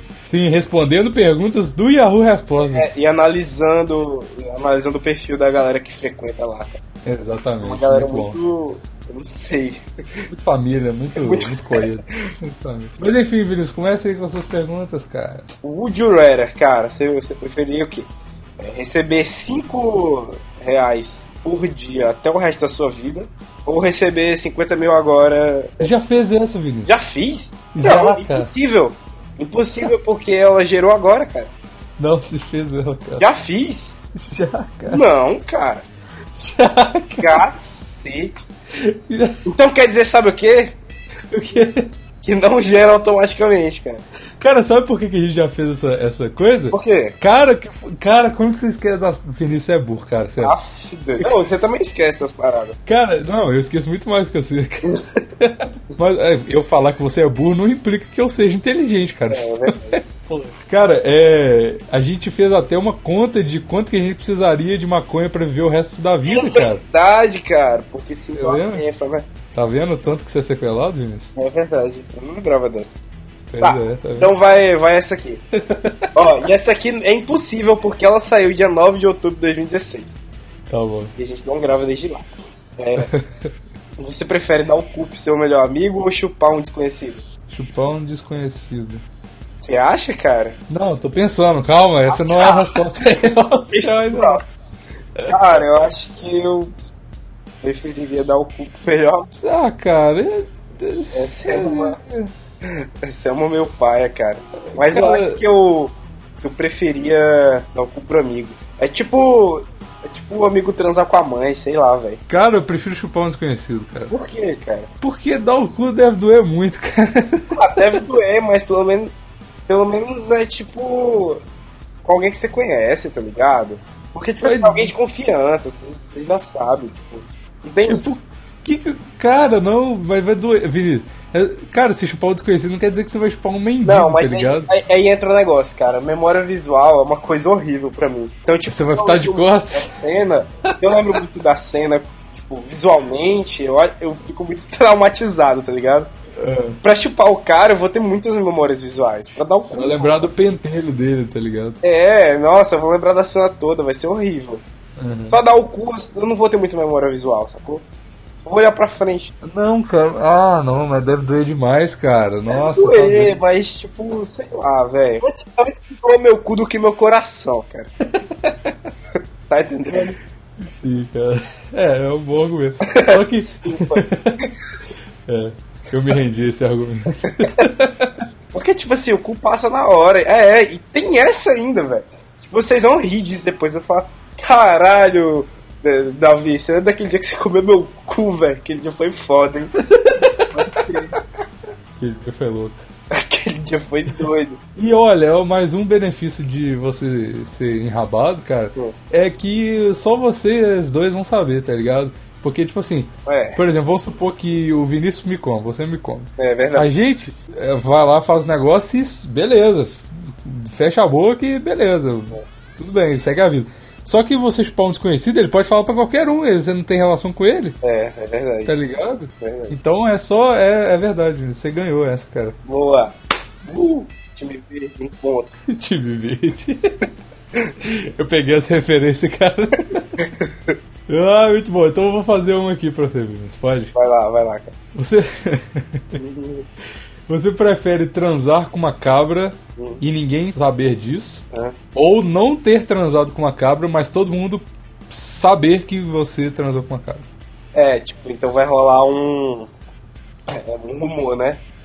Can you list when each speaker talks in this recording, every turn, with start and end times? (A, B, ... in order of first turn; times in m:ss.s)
0:00.3-0:03.0 A
0:02.6-0:06.8 B
0:07.0-0:08.4 A
0:07.6-0:10.2 B
0:10.3-0:15.5 A
0:11.2-0:12.3 B
0:15.6-0:18.1 B
0:18.6-0:25.8 B
0:25.8-0:26.9 A
0:26.9-0:31.5 B
0:27.7-0:28.5 A
0:32.0-0:33.3 A
0:33.2-0:34.0 B
0:34.2-0:35.0 A
0:34.9-0:35.8 B
0:36.4-0:37.4 A
0:37.2-0:38.4 B
0:38.7-0:39.4 A
0:39.4-0:40.8 B
0:41.3-0:41.9 A
0:42.2-0:44.0 B
0:44.4-0:50.6 A
0:46.7-0:47.2 B
0:50.4-0:52.8 B
0:52.9-1:06.8 A
0:59.3-1:00.1 B
1:06.2-1:09.3 B
1:08.4-1:08.8 A
1:09.5-1:11.3 A
1:11.4-1:12.9 B
1:13.5-1:14.3 A
1:13.6-1:15.4 B
1:15.6-1:16.1 A
1:16.2-1:20.1 B
1:20.7-1:21.1 A
1:21.2-1:23.2 B
1:23.0-1:23.5 A
1:24.0-1:27.2 B
1:27.5-1:29.0 A
1:29.6-1:30.6 B
1:30.7-1:34.4 A
1:32.1-1:32.8 B
1:33.7-1:34.5 B
1:35.3-1:36.9 B
1:37.6-1:39.3 B
1:39.3-1:42.3 A
1:41.1-1:42.0 B
1:42.6-1:52.2 B
1:44.7-1:45.4 A
1:52.3-1:54.1 A
1:54.1-1:54.9 B
1:55.0-1:57.5 A
1:57.5-1:59.1 B
1:59.7-2:01.4 B
2:02.0-2:08.1 B
2:04.4-2:04.9 A
2:07.8-2:14.7 A
2:13.8-2:26.1 B
2:18.7-2:19.9 A
2:26.4-2:26.8 A
2:26.8-2:30.3 B
2:29.7-2:31.8 A
2:31.8-2:34.6 B
2:35.0-2:35.4 A
2:35.3-2:37.8 B
2:38.4-2:39.3 B
2:39.4-2:43.4 A
2:42.5-2:47.9 B
2:48.3-2:48.7 A
2:49.5-2:50.2 B
2:50.6-2:54.5 A
2:52.8-2:54.0 B
2:55.3-2:58.2 A
2:58.5-3:09.8 B
3:09.8-3:10.6 A
3:10.3-3:11.2 B
3:12.0-3:12.8 A
3:13.1-3:14.6 B
3:14.8-3:37.8 A
3:23.3-3:23.6 B
3:26.4-3:26.9 B
3:37.8-3:38.7 B
3:38.7-3:42.6 A
3:39.4-3:39.8 B
3:42.6-3:45.5 B
3:45.7-3:47.1 A
3:47.8-3:50.2 A
3:50.2-3:50.8 B
3:51.1-3:53.9 A
3:53.9-3:54.7 B
3:55.0-3:56.2 A
3:56.2-3:56.7 B
3:57.3-4:07.3 A
3:59.8-4:00.0 B
4:01.5-4:01.8 B
4:07.8-4:09.7 B
4:10.5-4:11.6 B